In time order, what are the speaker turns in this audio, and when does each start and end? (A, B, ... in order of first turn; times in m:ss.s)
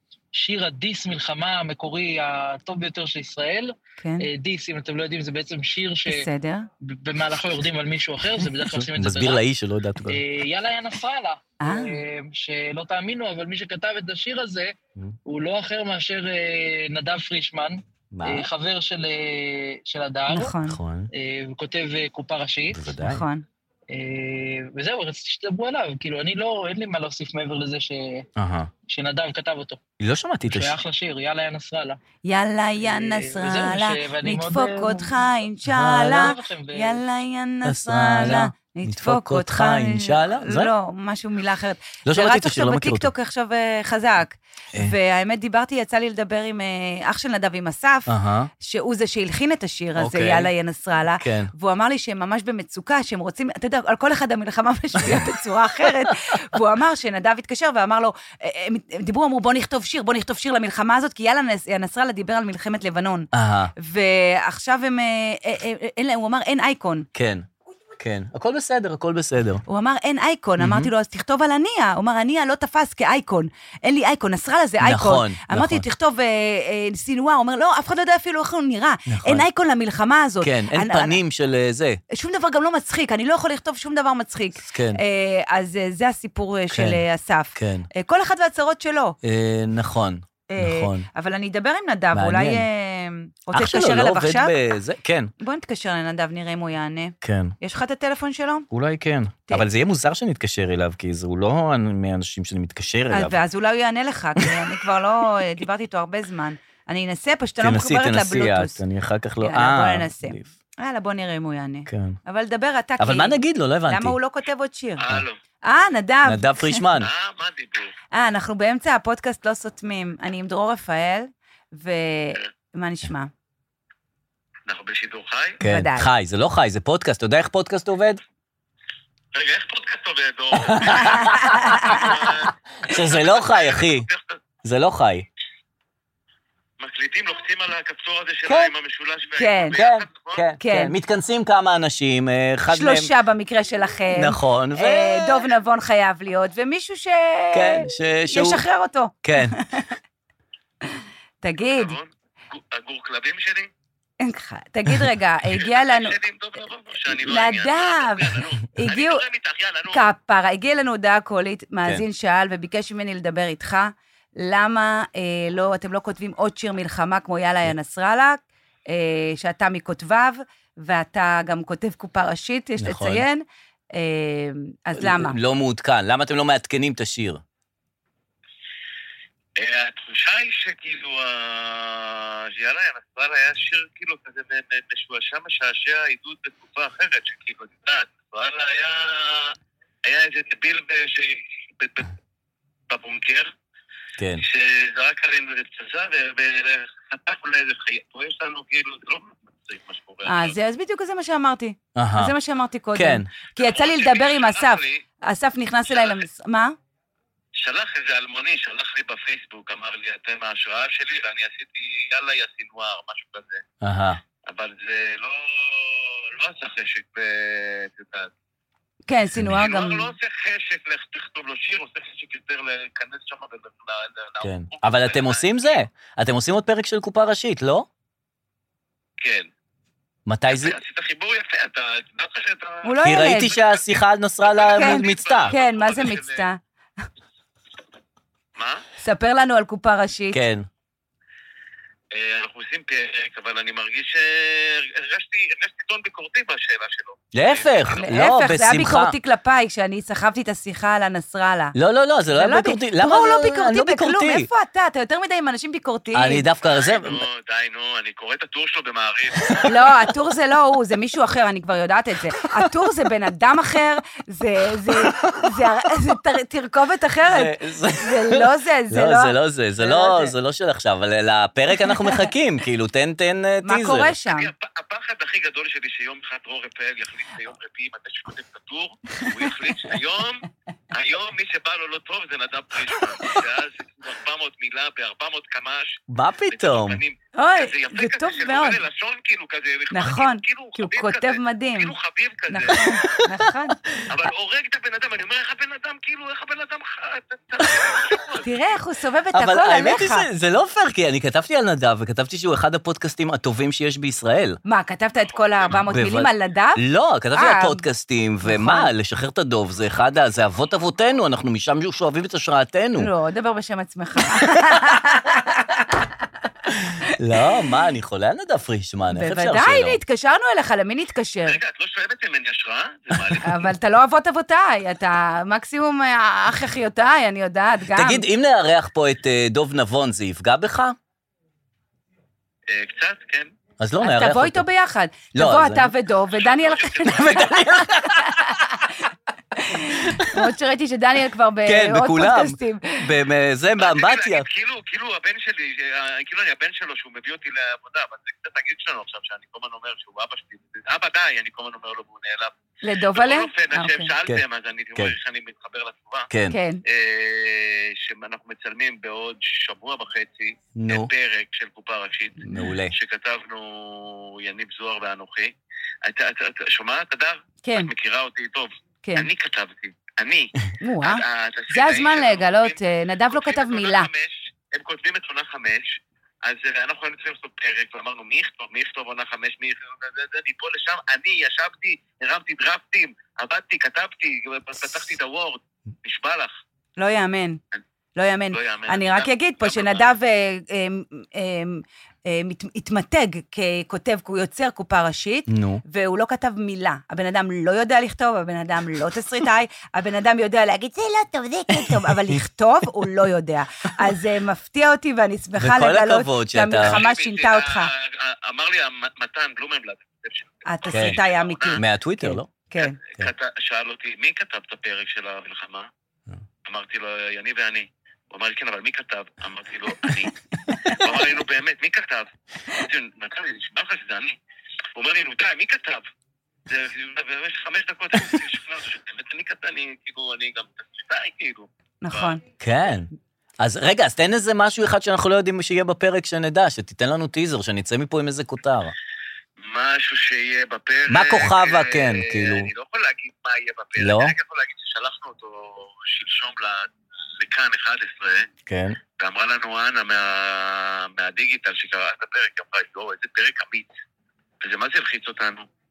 0:00.3-0:06.3 A
0:04.0-0:04.2 B
0:06.1-0:06.7 B
0:06.8-0:09.4 A
0:08.6-0:10.2 C
0:10.1-0:14.7 A
0:11.6-0:12.0 B
0:15.2-0:20.5 A
0:18.1-0:18.5 C
0:20.3-0:20.8 B
0:20.6-0:21.1 C
0:21.1-0:22.9 A
0:22.7-0:23.2 C
0:23.0-0:23.4 B
0:23.9-0:28.2 A
0:28.4-0:28.7 C
0:28.9-0:29.8 A
0:30.0-0:30.8 C
0:30.5-0:32.0 A
0:32.2-1:07.1 B
0:32.8-0:35.1 A
0:35.6-0:36.3 C
0:35.9-0:37.0 A
0:37.6-0:40.7 C
0:42.0-0:43.1 C
0:48.1-0:48.5 C
0:50.0-0:50.5 C
0:51.2-0:51.5 C
1:03.3-1:03.7 C
1:07.1-1:07.5 C
1:08.0-1:09.6 C
1:09.6-1:21.2 B
1:10.6-1:10.9 C
1:14.8-1:15.8 C
1:19.1-1:19.4 C
1:20.4-1:22.0 C
1:22.1-1:29.2 B
1:24.6-1:25.0 C
1:26.7-1:27.0 C
1:27.6-1:27.9 C
1:29.2-1:31.1 C
1:30.5-1:34.5 B
1:32.1-1:32.6 C
1:33.5-1:35.3 C
1:35.4-1:38.7 B
1:37.2-1:37.5 C
1:38.7-1:43.4 C
1:43.1-1:48.8 B
1:47.6-1:50.5 C
1:49.4-1:56.8 B
1:51.9-1:52.2 C
1:53.0-1:54.2 C
1:55.0-1:55.4 D
1:56.2-1:57.1 C
1:56.9-1:57.9 D
1:58.1-2:03.3 B
2:04.7-2:05.6 D
2:05.6-2:06.1 B
2:05.6-2:08.2 C
2:09.3-2:14.4 D
2:10.6-2:14.1 C
2:11.0-2:12.3 B
2:14.6-2:15.2 C
2:16.8-2:20.5 D
2:18.4-2:18.7 C
2:19.4-2:19.8 B
2:19.7-2:23.1 C
2:20.6-2:20.9 B
2:22.7-2:29.9 B
2:24.1-2:25.5 C
2:27.5-2:28.6 C
2:29.2-2:29.6 C
2:30.8-2:31.9 B
2:31.6-2:33.7 D
2:34.2-2:36.2 B
2:35.5-2:40.0 D
2:37.1-2:39.2 B
2:39.9-2:55.4 B
2:52.8-2:53.2 C
2:55.0-2:57.4 C
2:59.6-3:09.5 D
3:10.0-3:12.1 D
3:12.9-3:13.5 D
3:14.2-3:14.4 C
3:14.4-3:20.5 D
3:20.2-3:26.8 B
3:22.0-3:22.3 C
3:22.9-3:23.3 C
3:23.6-3:25.0 D
3:25.9-3:26.2 D
3:27.5-3:33.6 D
3:33.8-3:34.2 C
3:34.4-3:38.3 D
3:39.0-3:40.1 B
3:39.4-3:45.8 D
3:44.4-3:47.9 C
3:49.2-3:49.5 D
3:50.3-3:50.8 C
3:50.5-3:56.4 D
3:52.8-3:53.6 B
3:53.0-3:55.5 C
3:54.7-3:56.6 B
3:58.6-3:58.8 D
3:59.0-4:00.4 B
4:00.3-4:00.6 C
4:02.1-4:08.1 D
4:07.3-4:09.1 C
4:07.9-4:11.7 B
4:11.7-4:14.5 C
4:12.3-4:16.4 B
4:16.1-4:17.2 C
4:16.6-4:19.5 D
4:19.6-4:30.3 B
4:24.9-4:25.5 C
4:27.3-4:34.1 C
4:31.8-4:32.2 B
4:33.6-4:34.5 B
4:34.2-4:53.0 D
4:39.2-4:40.0 B
4:43.0-4:43.4 B
4:46.1-4:47.0 C
4:47.3-4:48.8 B
4:49.9-4:51.9 B
4:52.5-4:53.8 B
4:52.7-4:54.1 C
4:54.1-4:58.5 D
4:57.6-4:57.9 C
4:58.4-5:00.3 B
4:59.3-5:04.6 C
5:04.6-5:06.8 B
5:05.3-5:05.9 D
5:05.8-5:13.1 C
5:07.3-5:07.8 B
5:08.4-5:08.9 B
5:13.0-5:16.1 B
5:17.1-5:20.0 C
5:19.1-5:21.6 B
5:21.4-5:23.7 D
5:23.4-5:28.3 B
5:27.9-5:31.0 C
5:32.7-5:33.5 D
5:33.8-5:34.6 C
5:34.0-5:43.1 B
5:35.3-5:35.9 C
5:36.3-5:37.6 D
5:37.0-5:38.5 C
5:40.1-5:40.4 C
5:41.6-5:44.4 C
5:43.8-5:52.5 D
5:52.8-5:54.1 B
5:53.1-5:56.3 D
5:56.3-5:56.6 C
5:56.5-5:56.8 B
5:56.8-6:05.5 D
6:00.8-6:01.1 C
6:02.4-6:02.9 C
6:06.0-6:12.8 D
6:07.6-6:07.9 B
6:10.8-6:14.1 B
6:13.3-6:26.5 D
6:27.0-6:27.6 B
6:28.2-6:47.9 B
6:28.5-6:30.1 D
6:35.5-6:35.8 C
6:41.8-6:42.4 C
6:45.6-6:47.0 C
6:46.8-6:51.8 D
6:50.6-6:53.0 B
6:50.9-6:51.2 C
6:51.8-6:52.5 C
6:52.8-6:55.9 D
6:56.6-7:00.3 D
7:00.7-7:01.2 B
7:01.0-7:04.4 D
7:05.0-7:06.0 D
7:06.7-7:12.4 D
7:12.0-7:12.4 B
7:12.6-7:13.1 C
7:13.6-7:18.9 C
7:19.6-7:28.5 D
7:21.1-7:22.7 C
7:24.0-7:24.3 C
7:28.7-7:29.0 C
7:29.2-7:33.9 D
7:34.6-7:35.6 D